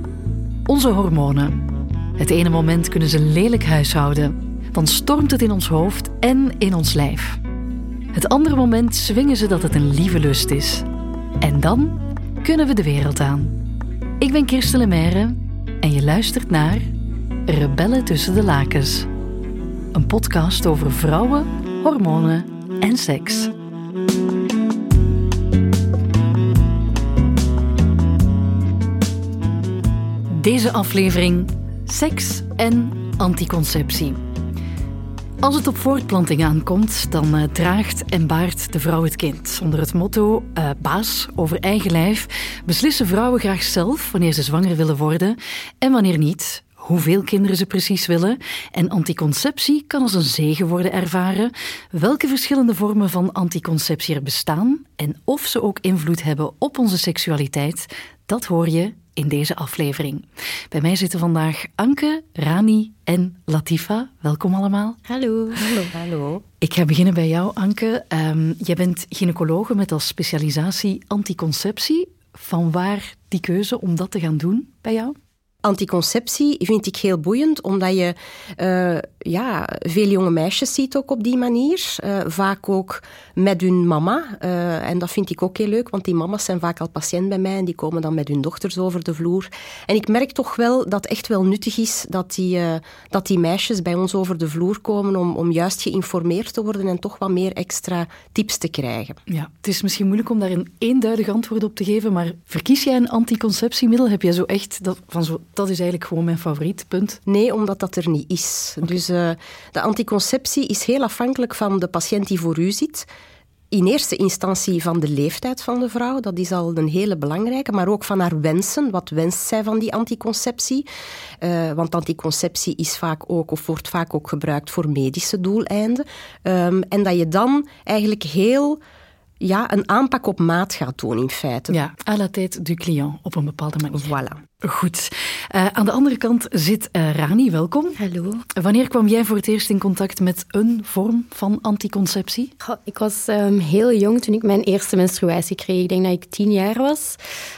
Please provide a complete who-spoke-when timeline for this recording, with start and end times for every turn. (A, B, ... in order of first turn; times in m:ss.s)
0:00.7-0:01.6 A
0:02.2-0:07.4 A
0:08.1-0:10.9 A
0:11.4-0:13.6 A
0:14.2-0:16.9 A
0:17.5-0:19.1 A
0:19.9-0:23.5 A
0:30.3-0:34.2 A
0:35.4-1:05.0 A
1:05.1-1:05.9 B
1:05.6-1:06.4 C
1:06.6-1:15.2 A
1:15.6-1:39.2 C
1:39.3-1:47.2 A
1:47.3-1:53.1 C
1:53.7-2:00.9 C
2:01.4-2:08.8 C
2:09.4-2:11.8 C
2:11.7-2:18.0 A
2:13.9-2:14.4 C
2:18.0-2:18.4 B
2:18.6-2:22.5 A
2:22.6-2:27.2 B